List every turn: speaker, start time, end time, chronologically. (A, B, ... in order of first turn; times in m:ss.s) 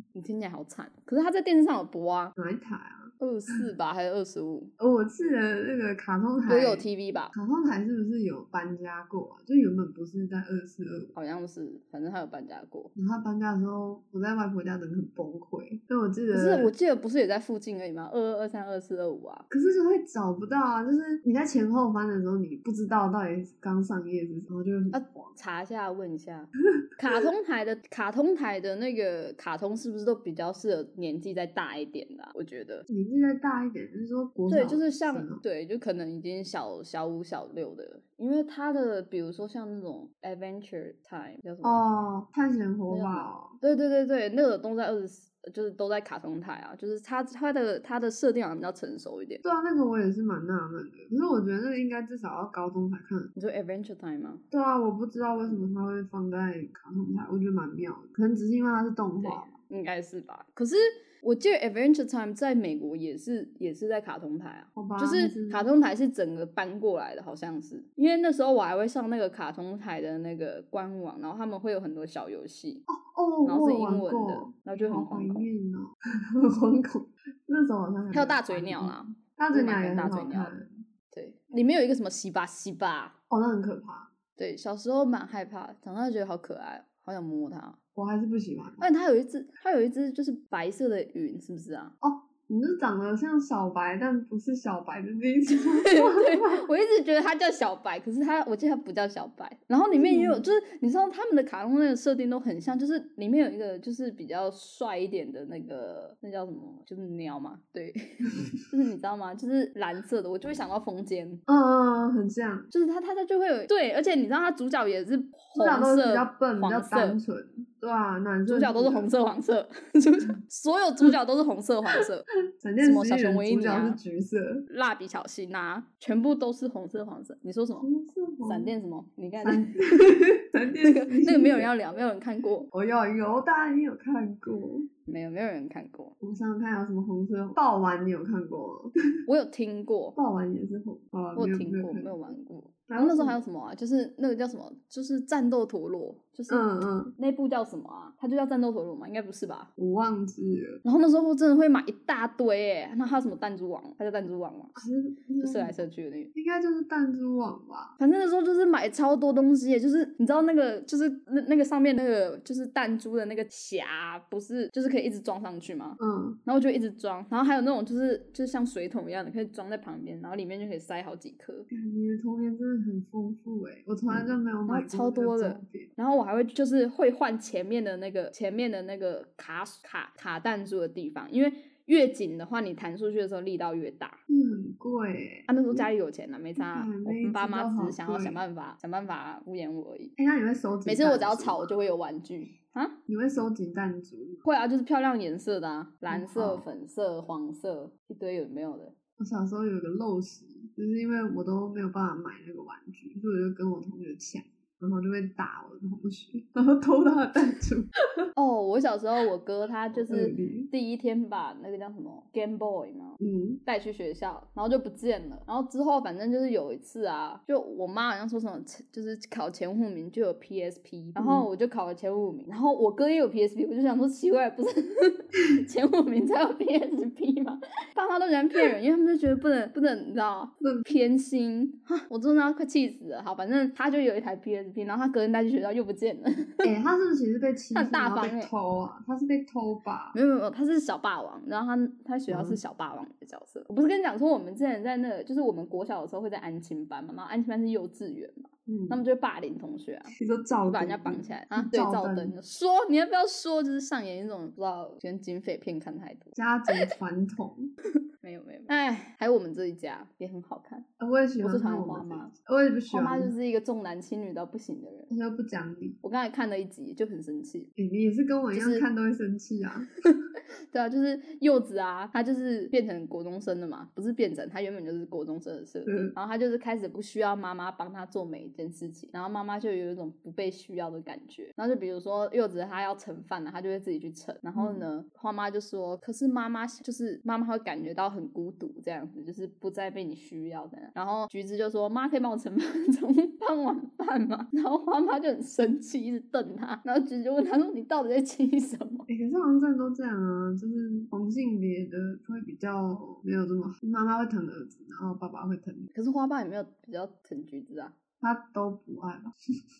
0:00.2-0:02.3 A
0:02.4-0:03.1 B
0:03.2-0:04.7 A
0:04.8-0:11.1 B
0:06.5-0:07.3 A
0:11.2-0:12.9 A
0:13.0-0:16.7 B
0:16.3-0:19.5 A
0:19.5-0:25.3 B
0:24.9-0:32.9 A
0:32.9-0:35.4 B
0:34.5-0:41.8 A
0:41.6-0:43.6 B
0:42.9-0:49.4 A
0:49.4-0:53.3 B
0:53.4-0:54.4 A
0:54.5-0:59.5 B
0:59.2-1:12.8 A
1:04.8-1:05.7 B
1:12.9-1:20.7 B
1:13.5-1:15.5 A
1:18.1-1:20.6 A
1:21.1-1:23.2 A
1:23.3-1:24.1 B
1:24.4-1:27.8 A
1:28.0-1:28.9 B
1:28.8-1:31.9 A
1:32.0-1:36.6 B
1:35.8-1:51.4 A
1:39.9-1:40.5 B
1:51.5-1:52.7 B
1:52.7-1:57.2 A
1:55.6-1:59.1 B
1:58.5-2:02.3 A
2:02.6-2:04.7 B
2:02.8-2:04.0 A
2:04.7-2:07.9 A
2:07.8-2:08.7 B
2:08.4-2:10.0 A
2:09.4-2:11.7 B
2:10.8-2:12.7 A
2:12.7-2:14.9 B
2:15.1-2:16.1 A
2:16.2-2:18.9 B
2:19.3-2:20.2 A
2:20.2-2:22.2 B
2:21.4-2:29.7 A
2:22.9-2:23.4 B
2:26.5-2:27.1 B
2:29.8-2:30.8 B
2:30.8-2:34.8 A
2:34.8-2:35.8 B
2:35.4-2:36.3 A
2:36.4-2:38.0 B
2:38.0-2:51.7 A
2:46.0-2:46.4 B
2:51.7-2:55.9 B
2:54.7-3:04.2 A
3:04.3-3:05.9 B
3:05.5-3:10.1 A
3:06.6-3:08.4 B
3:10.2-3:11.7 B
3:10.8-3:13.0 A
3:13.1-3:14.4 B
3:14.4-3:18.9 A
3:16.1-3:16.7 B
3:19.2-3:27.9 B
3:28.4-3:56.7 A
3:29.9-3:30.7 B
3:33.2-3:33.6 B
3:41.2-3:41.5 B
3:50.6-3:50.9 B
3:56.6-4:00.2 B
3:57.7-3:58.5 A
4:00.1-4:10.1 A
4:02.3-4:02.6 B
4:08.7-4:09.0 B
4:10.2-4:12.3 B
4:10.7-4:16.8 A
4:16.4-4:17.7 B
4:18.2-4:20.9 A
4:21.0-4:23.3 B
4:21.4-4:22.3 A
4:22.9-4:25.1 A
4:25.1-4:26.0 B
4:26.0-4:27.7 A
4:27.8-4:29.9 B
4:28.5-4:28.9 A
4:30.7-4:59.1 A
4:35.9-4:36.1 B
4:44.6-4:44.8 B
4:59.1-5:05.9 B
5:05.9-5:08.0 A
5:08.2-5:09.3 B